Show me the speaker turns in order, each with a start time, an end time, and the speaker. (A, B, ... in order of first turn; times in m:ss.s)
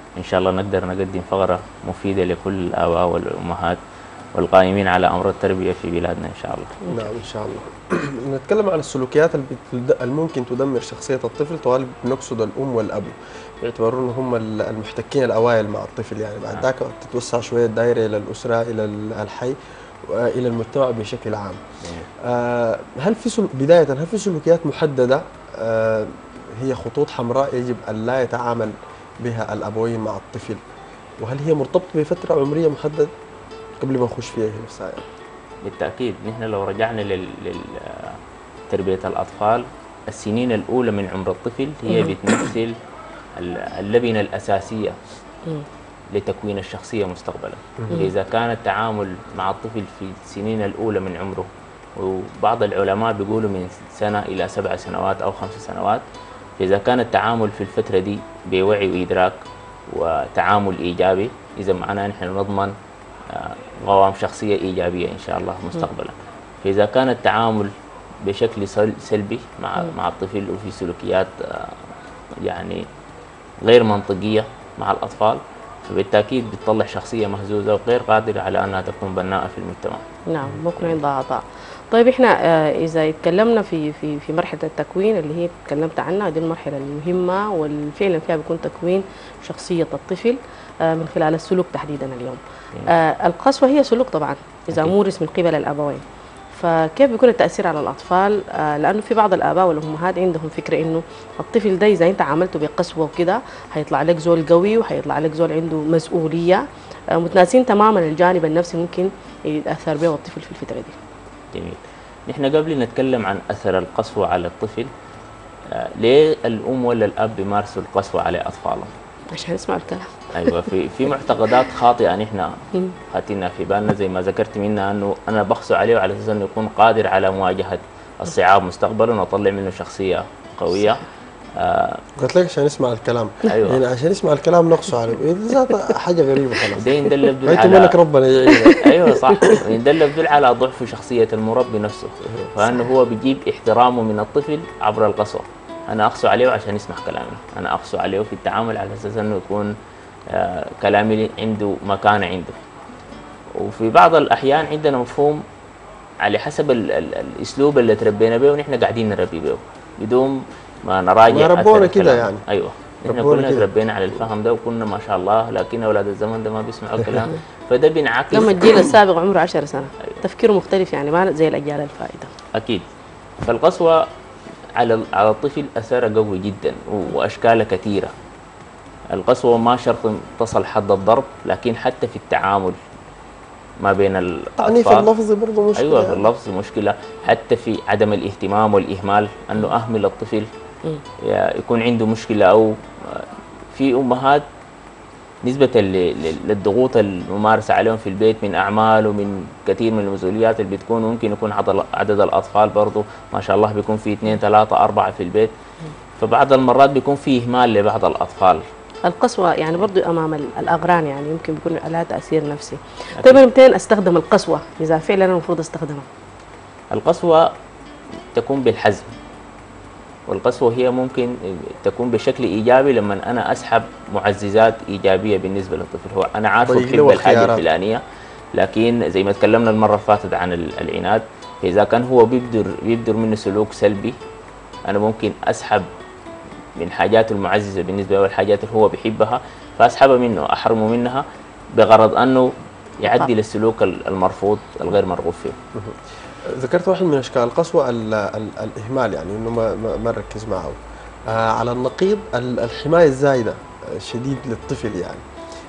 0:00.2-0:03.8 A
0:04.4-0:06.8 A
0:06.9-0:19.6 B
0:20.1-0:21.6 B
0:21.8-0:22.1 A
0:22.2-0:30.6 B
0:31.2-0:33.1 B
0:33.8-0:35.0 B
0:35.6-0:38.2 A
0:38.7-0:42.7 A
0:41.9-0:42.2 C
0:43.4-0:44.9 A
0:46.1-0:56.0 A
0:56.6-0:59.4 A
0:59.9-1:02.7 A
1:03.3-1:07.7 A
1:08.2-1:11.8 A
1:12.4-1:12.8 A
1:13.6-1:20.1 A
1:20.3-1:46.6 C
1:47.1-1:51.0 C
1:51.5-1:54.9 A
1:55.7-1:58.9 A
1:59.3-2:00.5 C
2:00.3-2:02.5 A
2:03.1-2:11.0 A
2:11.6-2:12.0 A
2:12.2-2:16.8 B
2:13.4-2:13.8 A
2:16.7-2:18.0 A
2:17.4-2:19.5 B
2:18.5-2:19.6 C
2:18.8-2:29.7 A
2:22.6-2:22.9 C
2:30.3-2:32.6 A
2:33.6-2:35.4 A
2:36.2-2:48.8 A
2:41.3-2:42.4 B
2:43.0-2:44.2 B
2:48.3-2:52.3 C
2:52.6-2:52.8 A
2:53.4-2:54.0 A
2:54.8-2:58.1 A
2:59.1-3:02.8 A
3:03.8-3:05.1 A
3:04.6-3:06.3 B
3:05.8-3:10.5 A
3:11.2-3:14.4 A
3:15.4-3:25.5 A
3:26.2-3:28.6 A
3:29.0-3:36.0 C
3:33.2-3:33.4 A
3:36.9-3:37.5 A
3:38.3-3:39.1 A
3:40.3-3:48.0 A
3:46.6-3:47.6 B
3:48.6-3:54.1 A
3:54.9-3:55.8 A
3:56.8-4:01.2 A
4:01.8-4:02.5 A
4:03.0-4:05.6 A
4:03.0-4:03.3 C
4:06.6-4:10.8 B
4:11.3-4:15.2 B